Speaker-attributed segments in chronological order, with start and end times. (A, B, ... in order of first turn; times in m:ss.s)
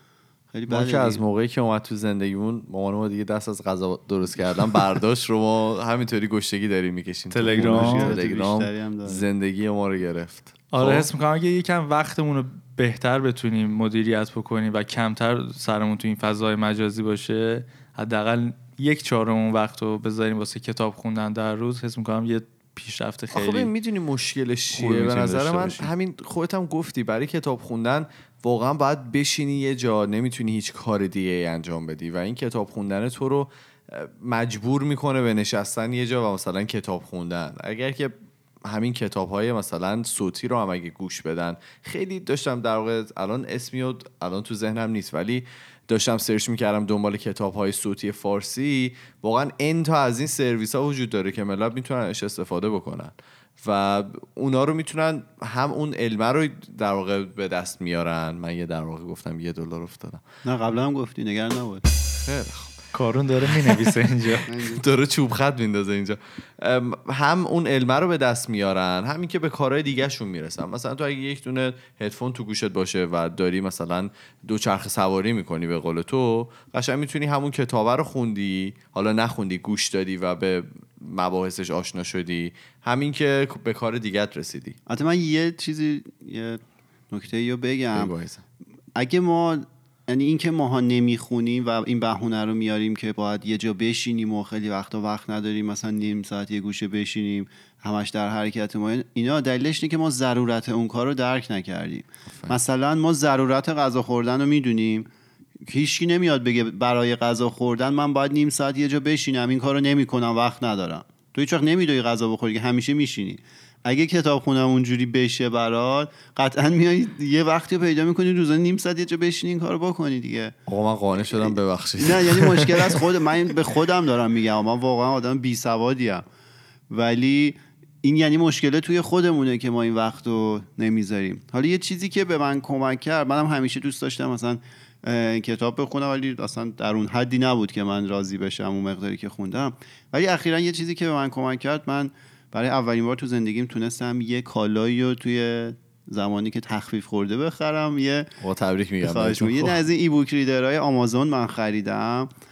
0:00.5-0:01.2 A
0:00.7-0:11.1 B
0:07.3-0:08.2 C
0:07.5-0:09.3 A
0:10.7-0:23.7 C
0:23.3-0:38.1 B
0:24.7-0:25.9 C
0:38.6-1:00.2 B
1:00.4-1:01.9 A
1:02.2-1:02.7 B
1:02.9-1:04.5 C
1:03.5-1:03.9 B
1:04.5-1:04.8 A
1:04.6-1:24.8 B
1:24.9-1:26.6 A
1:27.1-1:28.1 A
1:27.9-1:28.4 B
1:29.0-1:45.1 A
1:42.3-1:42.6 B
1:45.6-2:00.6 A
2:00.7-2:03.0 B
2:01.2-2:06.2 A
2:06.9-2:28.3 A
2:28.4-2:29.9 B
2:29.0-2:32.3 A